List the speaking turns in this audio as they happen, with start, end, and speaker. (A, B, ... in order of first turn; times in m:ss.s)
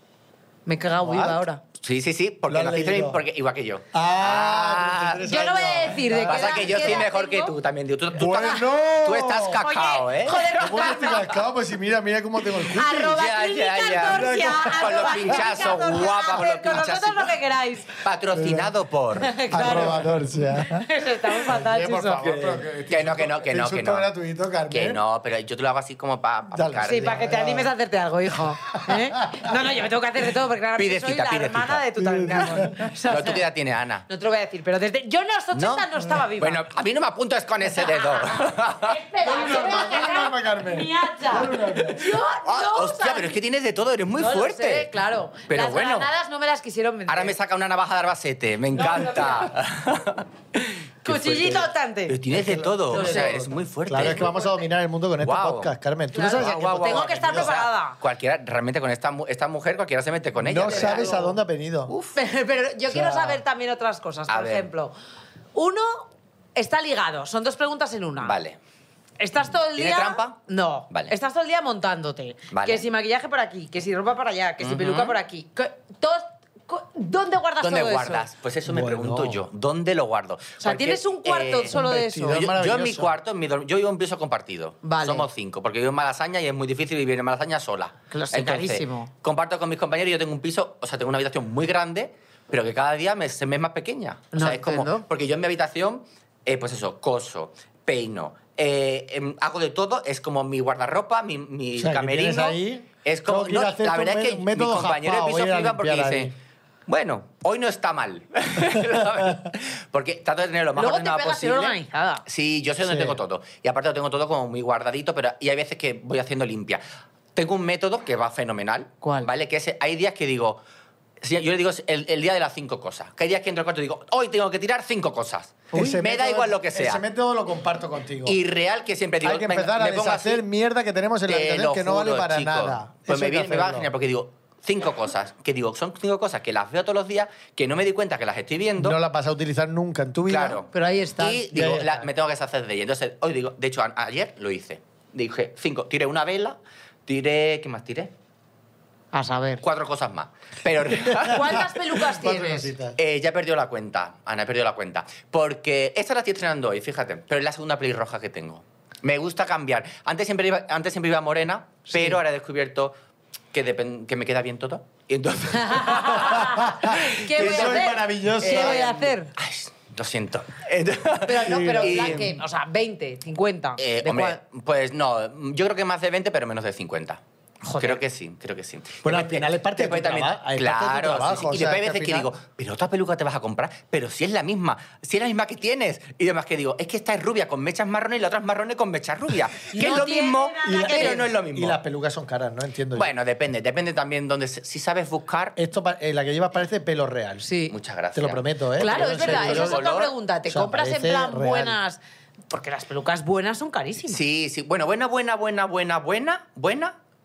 0:00.6-0:01.6 A
0:01.0-0:01.4 B
0:01.8-0:05.2 C
0:02.5-0:03.2 B
0:03.9-0:07.0 B
0:05.2-0:07.5 A
0:06.2-0:11.2 C
0:08.1-0:09.6 B
0:09.6-0:11.2 A
0:10.6-0:13.2 B
0:12.7-0:17.9 A
0:12.8-0:17.4 C
0:14.0-0:15.5 B
0:17.9-0:20.0 C
0:18.3-0:18.7 B
0:19.2-0:22.2 A
0:19.5-0:25.0 B
0:22.2-0:24.1 C
0:24.7-0:27.2 C
0:26.5-0:27.7 B
0:26.8-0:33.4 A
0:28.7-0:29.5 B
0:30.8-0:31.8 C
0:32.0-0:32.9 B
0:33.0-0:34.0 C
0:34.1-0:36.6 A
0:35.5-0:39.0 C
0:37.8-0:43.4 A
0:39.2-0:42.2 B
0:42.4-0:44.9 C
0:44.2-0:47.4 A
0:45.5-0:46.1 C
0:47.1-0:54.4 C
0:48.7-0:49.5 A
0:51.0-0:52.2 A
0:52.3-0:57.6 B
0:52.9-0:53.4 A
0:54.0-0:54.5 A
0:55.2-1:01.2 C
0:56.1-0:58.0 A
1:00.4-1:01.9 B
1:00.6-1:01.4 A
1:01.9-1:02.2 C
1:02.1-1:05.0 A
1:02.9-1:03.4 B
1:04.3-1:04.7 C
1:05.5-1:08.3 A
1:08.2-1:08.6 C
1:09.2-1:18.3 A
1:09.8-1:10.4 C
1:12.5-1:12.8 C
1:14.6-1:15.2 C
1:17.6-1:46.3 C
1:18.6-1:19.4 B
1:20.6-1:22.4 A
1:21.7-1:23.1 B
1:24.8-1:25.3 A
1:28.1-1:29.1 A
1:34.3-1:35.0 A
1:41.8-1:46.3 B
1:46.9-1:56.8 C
1:50.8-1:52.2 A
1:52.8-1:53.2 B
1:57.3-2:00.6 C
1:59.0-1:59.3 A
2:01.2-2:07.0 C
2:05.7-2:08.4 B
2:08.2-2:10.4 C
2:09.2-2:13.9 B
2:11.3-2:19.0 C
2:18.8-2:20.6 B
2:20.3-2:28.1 C
2:20.7-2:21.5 A
2:21.5-2:22.1 B
2:29.1-2:29.6 A
2:29.6-2:31.8 C
2:31.1-2:33.0 B
2:31.2-2:32.7 A
2:33.0-2:42.9 C
2:41.9-2:42.2 A
2:43.5-2:52.4 C
2:45.5-2:49.3 A
2:46.2-2:48.9 B
2:51.2-2:54.4 A
2:51.3-2:52.3 B
2:53.8-2:57.2 C
2:57.6-2:58.0 A
2:57.8-3:11.8 C
2:59.0-3:02.3 B
3:09.7-3:11.2 A
3:10.6-3:13.1 B
3:12.9-3:15.6 C
3:15.6-3:17.5 B
3:17.4-3:17.7 A
3:17.7-3:20.1 C
3:18.1-3:19.8 B
3:18.8-3:24.2 A
3:20.5-3:21.8 B
3:24.1-3:26.9 C